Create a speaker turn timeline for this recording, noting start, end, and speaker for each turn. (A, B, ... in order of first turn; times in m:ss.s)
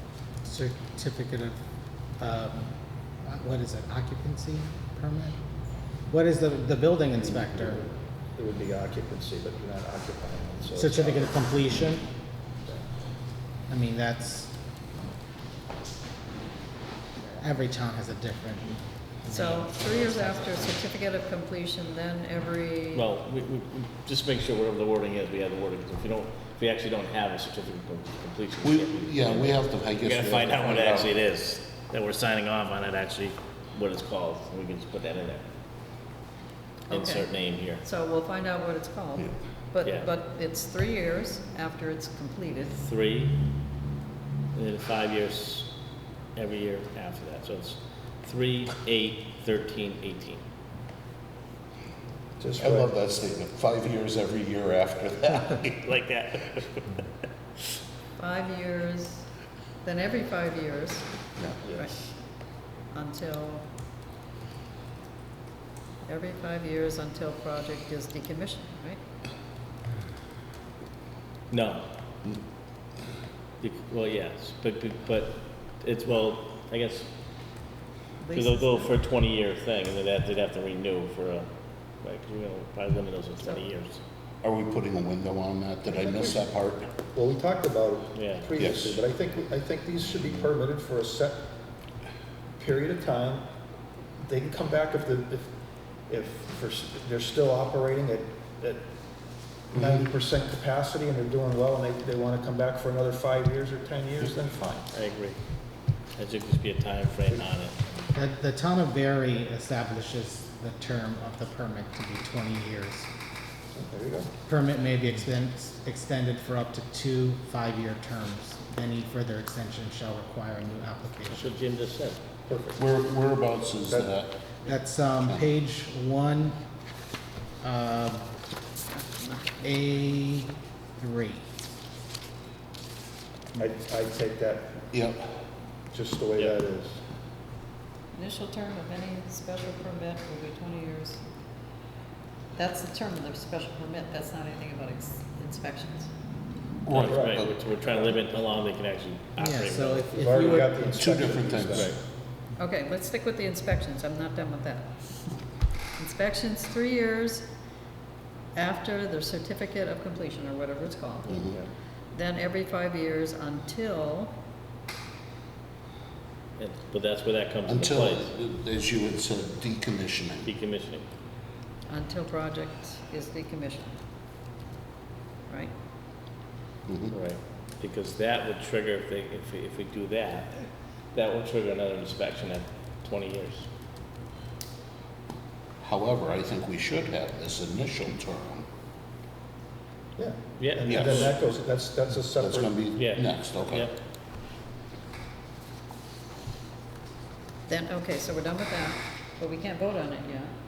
0:00.4-0:01.6 A
0:02.2-0:02.7 A
0:03.2-0:05.4 A
0:06.1-0:07.8 A
0:08.3-0:11.3 B
0:10.8-0:12.0 A
0:13.7-0:14.5 A
0:17.4-0:20.7 A
0:19.3-0:23.0 C
0:22.9-0:35.5 D
0:28.6-0:31.1 E
0:36.9-0:42.8 C
0:36.9-0:37.8 D
0:39.8-0:40.1 D
0:42.8-0:43.4 D
0:44.5-0:45.7 D
0:46.4-0:50.4 D
0:52.4-0:52.9 B
0:52.6-0:55.9 E
0:55.6-0:57.0 D
0:58.2-0:59.2 C
0:59.8-1:01.0 C
1:01.6-1:01.9 B
1:02.9-1:03.6 C
1:06.0-1:09.0 C
1:11.5-1:11.9 D
1:13.6-1:17.1 D
1:18.2-1:18.9 C
1:18.3-1:24.0 D
1:24.4-1:26.9 E
1:26.0-1:26.4 B
1:27.1-1:31.4 B
1:28.1-1:28.5 D
1:28.6-1:29.0 E
1:32.6-1:33.4 B
1:34.2-1:35.5 B
1:36.1-1:38.8 B
1:39.7-1:44.9 B
1:39.8-1:40.1 E
1:44.9-1:45.4 D
1:46.1-1:48.0 D
1:48.1-1:53.1 A
1:53.7-1:54.3 B
1:54.5-2:01.5 A
2:01.3-2:02.2 D
2:02.5-2:02.8 B
2:02.8-2:04.4 E
2:04.6-2:06.6 A
2:07.6-2:08.2 A
2:08.9-2:09.7 C
2:09.6-2:11.4 A
2:13.5-2:14.8 B
2:14.9-2:15.4 E
2:15.9-2:17.0 B
2:18.1-2:21.2 C
2:22.6-2:26.1 C
2:26.8-2:27.6 E
2:26.9-2:30.3 D
2:27.0-2:27.4 B
2:29.4-2:31.3 A
2:30.1-2:32.0 B
2:30.9-2:32.0 E
2:32.6-2:35.1 C
2:36.0-2:37.4 C
2:38.5-2:41.3 C
2:41.2-2:41.7 D
2:41.3-2:41.6 E
2:42.1-2:44.3 C
2:46.6-2:48.3 D
2:47.6-2:50.5 E
2:50.4-2:51.1 D
2:51.9-2:53.9 C
2:56.9-2:57.1 E
2:57.1-3:00.6 D
3:01.1-3:03.7 D
3:05.8-3:08.6 E
3:10.2-3:12.8 B
3:10.6-3:11.3 D
3:10.8-3:11.3 E
3:12.3-3:13.9 E
3:12.9-3:13.9 D
3:17.7-3:20.5 C